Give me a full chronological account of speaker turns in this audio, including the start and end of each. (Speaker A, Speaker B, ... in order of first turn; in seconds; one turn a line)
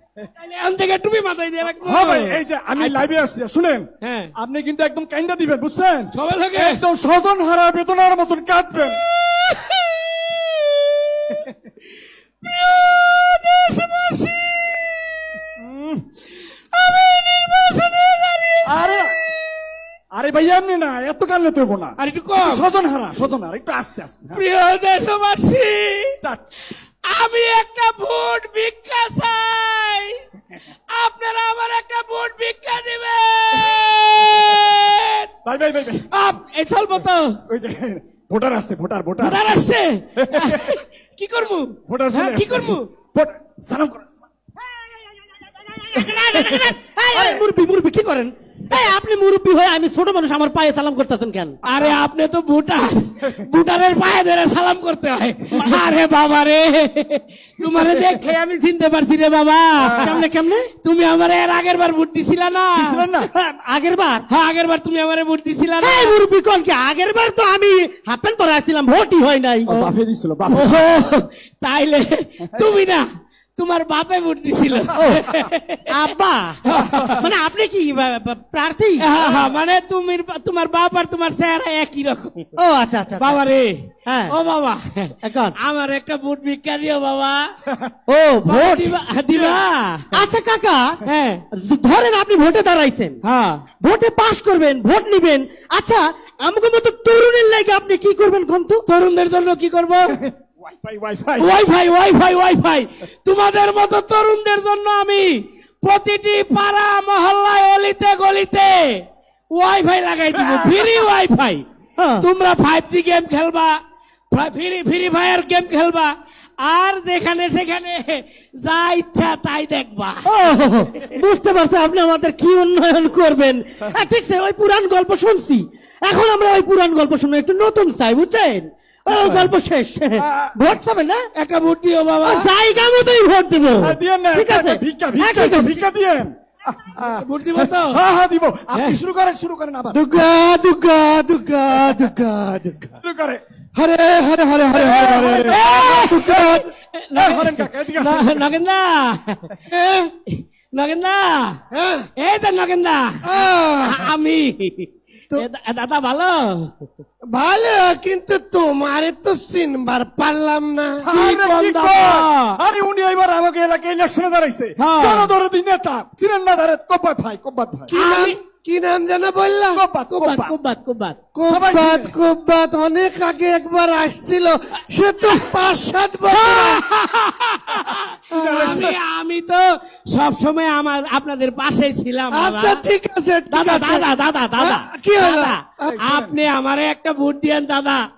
Speaker A: 0.3-3.0
Speaker B: 1.7-9.9
Speaker A: 4.0-4.3
Speaker A: 6.1-6.8
Speaker B: 11.3-11.5
Speaker B: 12.4-14.6
Speaker B: 15.6-16.2
Speaker A: 16.7-18.8
Speaker B: 18.6-19.1
Speaker B: 20.1-24.4
Speaker A: 22.0-22.6
Speaker A: 24.3-26.2
Speaker A: 26.7-30.2
Speaker A: 30.9-35.3
Speaker B: 33.5-34.6
Speaker B: 35.4-36.0
Speaker A: 36.1-37.4
Speaker B: 37.5-39.4
Speaker A: 39.2-42.9
Speaker B: 40.2-40.8
Speaker B: 41.9-44.0
Speaker A: 45.9-46.8
Speaker B: 46.0-47.4
Speaker C: 46.2-51.6
Speaker A: 51.6-60.2
Speaker B: 51.7-52.0
Speaker B: 57.7-58.1
Speaker B: 59.8-60.2
Speaker C: 60.0-60.7
Speaker A: 60.8-63.1
Speaker B: 62.8-63.3
Speaker C: 63.3-64.2
Speaker A: 64.3-66.2
Speaker C: 65.8-69.8
Speaker B: 69.7-70.8
Speaker A: 70.5-73.0
Speaker A: 73.5-75.9
Speaker C: 75.0-75.3
Speaker B: 75.0-75.5
Speaker C: 75.9-79.0
Speaker A: 76.6-77.2
Speaker B: 76.9-77.2
Speaker A: 79.0-82.5
Speaker B: 79.2-79.5
Speaker C: 82.6-83.4
Speaker A: 83.2-87.5
Speaker C: 84.0-84.3
Speaker C: 85.2-85.5
Speaker C: 88.1-88.9
Speaker A: 88.4-90.2
Speaker B: 89.3-89.6
Speaker C: 90.1-91.0
Speaker A: 91.0-91.4
Speaker C: 91.5-98.8
Speaker A: 93.2-93.6
Speaker A: 98.8-100.2
Speaker B: 100.1-101.6
Speaker A: 101.4-111.6
Speaker B: 110.3-111.0
Speaker C: 112.0-112.2
Speaker A: 112.2-113.8
Speaker A: 114.3-120.3
Speaker C: 120.3-131.2
Speaker B: 129.1-129.5
Speaker B: 130.2-130.6
Speaker A: 131.4-132.5
Speaker C: 132.2-135.8
Speaker B: 133.8-140.2
Speaker A: 137.0-138.0
Speaker A: 138.7-139.0
Speaker D: 139.9-142.9
Speaker B: 141.8-142.1
Speaker B: 143.0-143.4
Speaker D: 143.7-146.7
Speaker B: 144.7-146.6
Speaker A: 145.5-149.5
Speaker B: 147.1-148.6
Speaker D: 149.7-150.1
Speaker A: 150.3-151.6
Speaker D: 151.7-152.1
Speaker A: 152.2-153.3
Speaker D: 153.2-154.1
Speaker A: 153.8-156.9
Speaker D: 157.3-161.1
Speaker B: 161.0-167.9
Speaker A: 161.1-162.6
Speaker A: 164.8-165.3
Speaker D: 167.9-169.8
Speaker A: 167.9-168.4
Speaker B: 169.7-170.5
Speaker A: 170.1-171.2
Speaker D: 171.3-176.8
Speaker B: 171.5-172.1
Speaker A: 176.3-182.8
Speaker D: 178.3-178.9
Speaker B: 178.3-179.0
Speaker D: 182.3-185.9
Speaker A: 183.5-188.0
Speaker B: 185.8-186.4